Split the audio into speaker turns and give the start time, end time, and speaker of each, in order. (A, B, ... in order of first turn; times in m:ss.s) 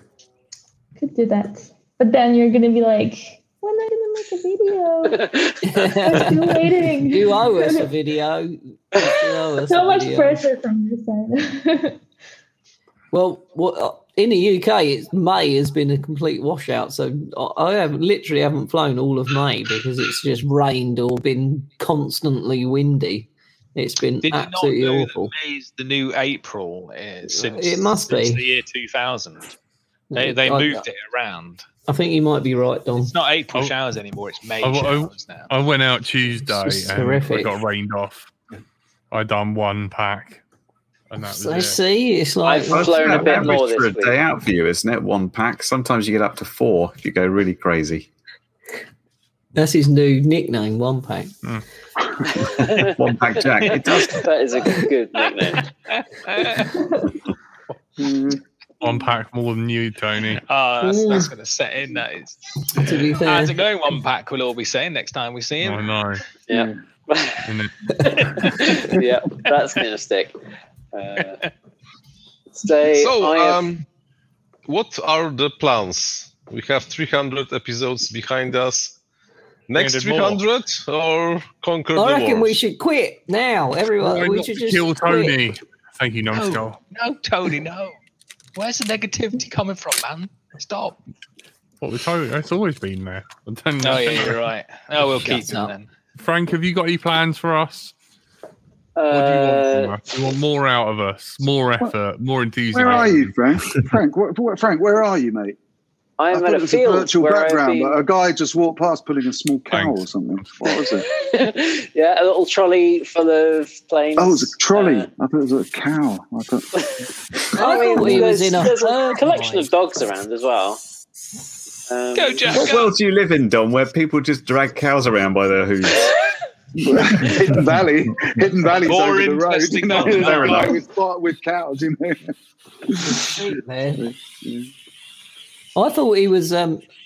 0:01.0-0:05.3 A
0:05.1-0:05.7 B
0:05.6-0:10.5 C
0:05.8-0:07.9 A
0:09.7-0:12.0 A
0:13.1-0:25.3 C
0:24.2-0:29.5 D
0:27.3-0:28.4 C
0:30.1-0:30.8 C
0:30.1-0:31.6 D
0:31.9-0:33.1 C
0:33.0-0:35.5 D
0:34.6-0:38.3 E
0:36.5-0:37.6 C
0:39.1-0:40.4 E
0:41.1-0:41.8 E
0:41.2-0:43.6 C
0:42.4-0:44.2 B
0:42.6-0:48.1 F
0:49.5-0:51.3 C
0:52.4-0:55.6 B
0:52.9-0:54.2 F
0:55.5-0:56.7 D
0:58.0-0:58.4 G
0:58.8-1:00.4 E
1:00.4-1:02.4 D
1:00.8-1:01.3 C
1:02.8-1:03.6 C
1:03.2-1:05.9 D
1:05.6-1:06.2 E
1:06.5-1:07.4 B
1:07.4-1:07.7 E
1:08.2-1:08.4 D
1:08.3-1:10.3 B
1:10.9-1:11.4 B
1:12.5-1:13.6 B
1:12.9-1:13.8 H
1:14.7-1:19.0 H
1:19.7-1:22.6 H
1:19.8-1:20.4 D
1:21.9-1:25.4 C
1:24.0-1:26.8 E
1:26.3-1:28.0 D
1:28.6-1:31.0 D
1:31.8-1:34.4 E
1:33.8-1:35.9 D
1:35.1-1:35.7 C
1:36.2-1:37.9 E
1:39.0-1:39.9 B
1:39.1-1:43.3 E
1:42.7-1:45.6 G
1:46.2-1:48.0 B
1:46.3-1:51.0 G
1:49.7-1:50.1 E
1:51.1-1:55.1 B
1:54.2-1:56.7 G
1:57.5-2:00.8 B
1:57.6-1:59.7 C
2:01.9-2:02.7 B
2:02.1-2:02.9 D
2:02.5-2:06.1 F
2:06.8-2:12.3 G
2:08.7-2:10.8 D
2:12.9-2:13.3 G
2:13.1-2:14.1 C
2:14.0-2:14.7 G
2:15.7-2:16.8 C